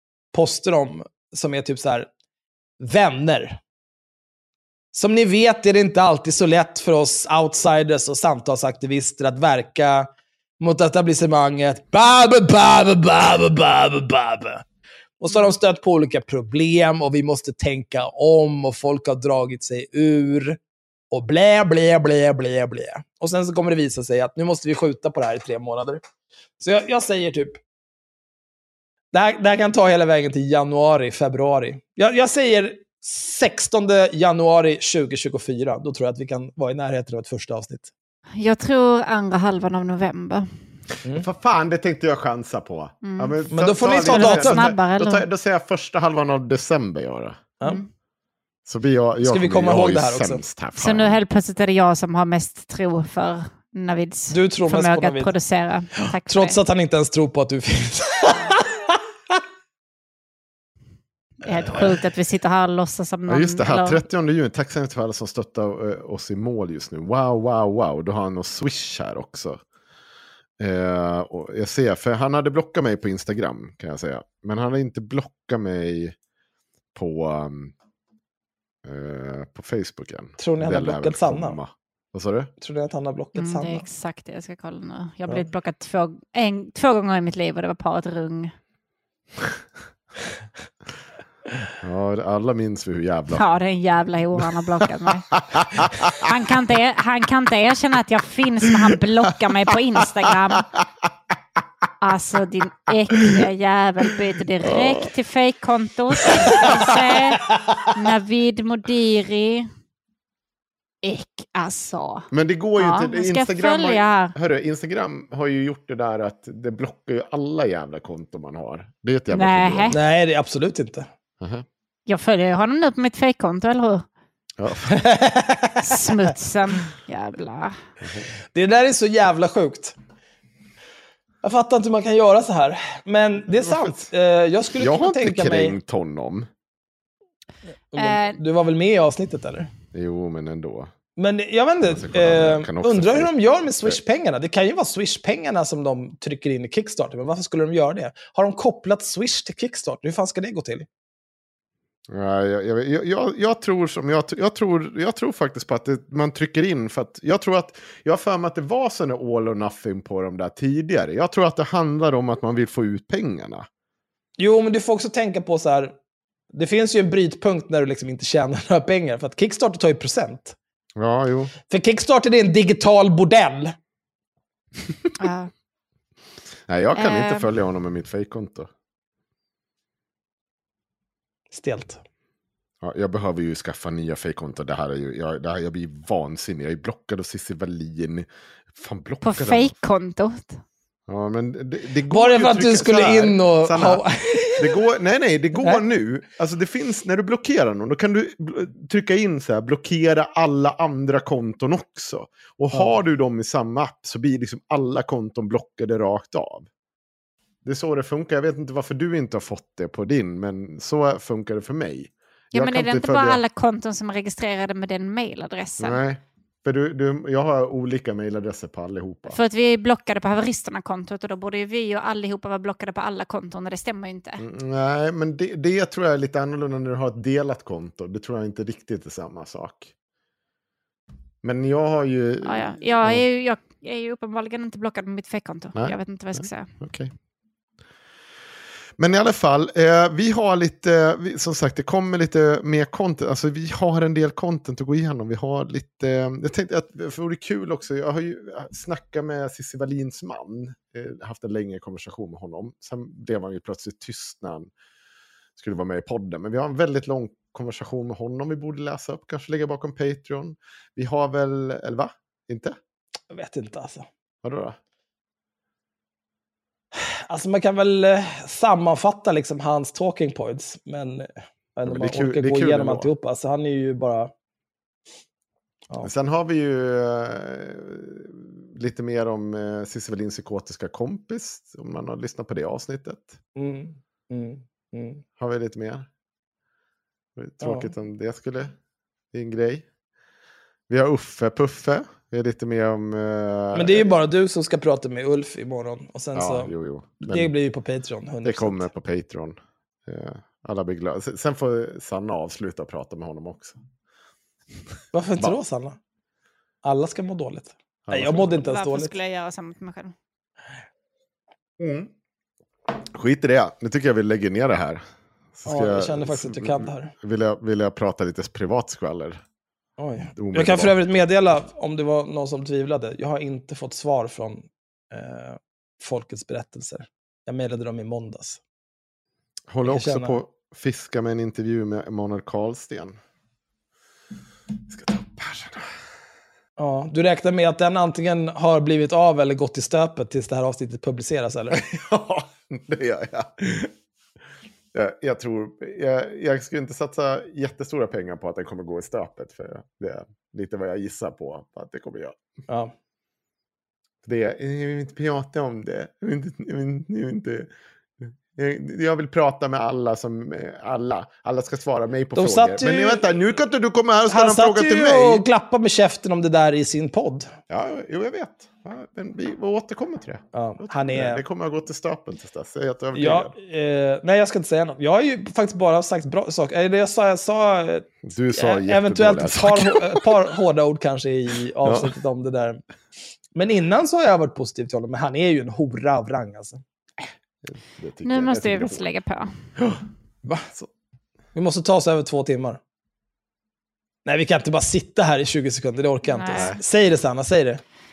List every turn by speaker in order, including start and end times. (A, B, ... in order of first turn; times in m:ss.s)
0:00.3-0:02.1 A
0:02.8-0:03.6 A
0:04.9-0:10.1 A
0:10.6-0:14.6 A
0:15.2-0:20.6 A
0:21.1-0:26.0 A
0:26.6-0:27.6 A
0:29.1-0:37.9 A
0:38.4-0:40.5 B
0:41.2-0:47.5 C
0:43.0-0:45.2 B
0:43.5-0:44.7 A
0:48.7-0:51.2 C
0:49.2-0:50.4 A
0:50.8-0:56.6 B
0:54.3-0:55.3 A
0:56.0-0:58.7 A
1:01.4-1:04.0 B
1:03.3-1:09.6 C
1:10.6-1:16.2 C
1:16.9-1:17.7 C
1:18.8-1:22.5 C
1:20.4-1:21.6 A
1:22.6-1:23.9 A
1:23.4-1:28.5 B
1:31.8-1:33.4 C
1:33.3-1:40.7 B
1:35.4-1:36.2 C
1:42.0-1:47.4 B
1:44.6-1:45.1 C
1:47.9-1:49.7 B
1:51.0-1:54.4 B
1:52.3-2:00.0 C
1:59.3-2:00.0 B
1:59.9-2:01.1 A
2:01.4-2:01.7 C
2:02.1-2:04.1 B
2:04.6-2:05.0 C
2:04.9-2:06.1 A
2:05.8-2:07.8 B
2:08.0-2:08.3 C
2:08.5-2:10.0 A
2:11.4-2:15.8 A
2:13.6-2:14.1 C
2:14.8-2:16.5 C
2:17.9-2:19.7 A
2:18.0-2:18.4 B
2:19.9-2:20.9 C
2:21.2-2:30.9 A
2:21.9-2:24.0 C
2:32.1-2:43.7 C
2:44.4-2:45.9 A
2:46.5-2:50.6 A
2:51.0-2:51.5 C
2:51.7-2:53.8 A
2:55.2-2:55.5 B
2:56.7-2:58.7 C
2:57.0-2:57.5 B
3:01.5-3:02.0 A
3:02.8-3:09.8 C
3:09.2-3:10.6 B
3:11.1-3:26.7 C
3:12.1-3:14.8 A
3:27.6-3:33.4 C
3:32.5-3:36.0 B
3:35.8-3:39.4 C
3:39.3-3:44.4 B
3:44.4-3:49.9 C
3:51.4-3:53.2 C
3:52.4-3:56.7 B
3:55.8-3:57.1 C
3:59.0-4:14.7 C
4:15.6-4:22.8 C
4:23.3-4:24.1 A
4:24.4-4:24.8 C
4:26.9-4:34.3 A
4:31.9-4:33.1 C
4:36.0-4:43.4 C
4:43.6-4:45.2 A
4:45.4-4:46.1 C
4:47.4-4:48.8 C
4:47.6-4:47.9 A
4:49.3-4:49.9 C
4:50.9-4:54.1 C
4:53.7-4:58.9 A
4:56.4-4:57.5 C
4:58.4-5:03.8 C
5:05.1-5:06.0 A
5:06.8-5:09.1 A
5:08.1-5:08.6 C
5:08.5-5:10.1 B
5:11.8-5:12.1 C
5:13.1-5:15.0 C
5:15.5-5:19.4 C
5:15.7-5:17.1 A
5:20.0-5:28.6 A
5:20.4-5:20.9 C
5:29.7-5:33.2 C
5:29.9-5:30.4 A
5:34.9-5:35.9 C
5:36.8-5:41.8 A
5:41.7-5:43.9 C
5:44.9-5:52.4 C
5:54.2-6:05.4 C
6:02.4-6:03.2 A
6:04.3-6:07.5 A
6:07.7-6:13.5 C
6:10.5-6:11.4 A
6:13.2-6:22.8 A
6:18.2-6:20.3 C
6:21.8-6:22.1 C
6:23.6-6:26.8 A
6:27.6-6:29.1 C
6:28.2-6:29.5 B
6:29.8-6:30.0 C
6:30.4-6:30.7 A
6:31.5-6:32.8 A
6:34.2-6:37.8 A
6:36.2-6:36.8 B
6:36.5-6:36.8 C